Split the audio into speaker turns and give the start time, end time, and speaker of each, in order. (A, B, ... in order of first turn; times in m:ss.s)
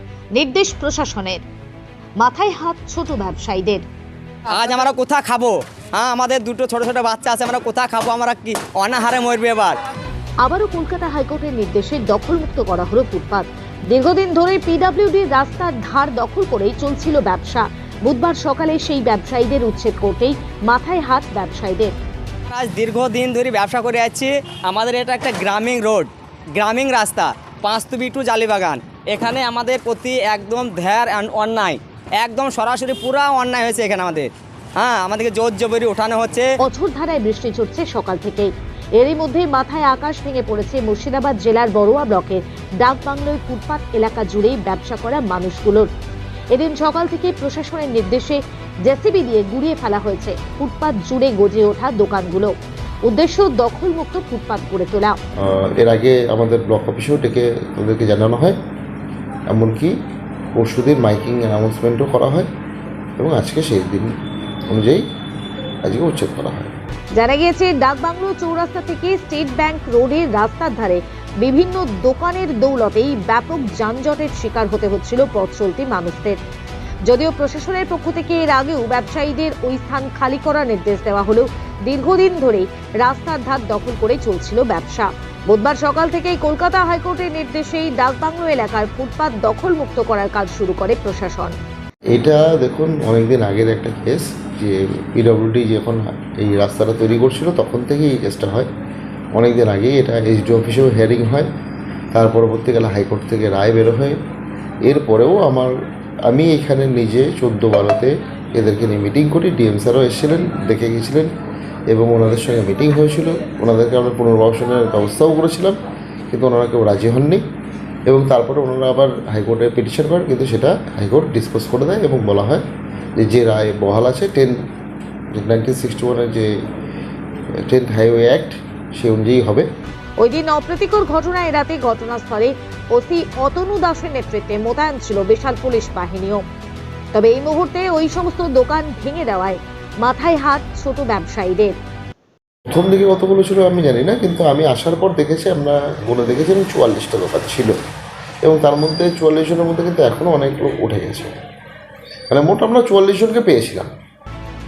0:00.4-0:01.4 A
0:02.2-0:03.8 A
0:04.5-0:09.8 B
0:10.4-0:21.9 A
0:22.5-0:36.5 B
0:36.6-0:45.9 A
0:46.5-0:52.5 A
0:53.1-0:55.2 A
0:55.4-0:58.6 C
0:59.5-1:00.0 C
1:00.6-1:02.5 C
1:03.2-1:04.1 C
1:04.7-1:05.0 C
1:05.8-1:06.7 C
1:07.1-1:16.4 A
1:17.0-1:31.6 A
1:32.1-1:38.7 C
1:39.4-1:41.5 C
1:42.1-1:44.2 C
1:44.8-1:45.8 C
1:46.3-1:51.3 C
1:51.9-1:55.8 C
1:56.3-1:57.4 C
1:58.1-2:02.6 C
2:03.2-2:04.6 C
2:05.3-2:06.5 C
2:07.6-2:09.7 C
2:10.2-2:16.4 A
2:17.1-2:21.8 A
2:22.7-2:27.7 C
2:28.4-2:31.3 C
2:32.3-2:33.9 C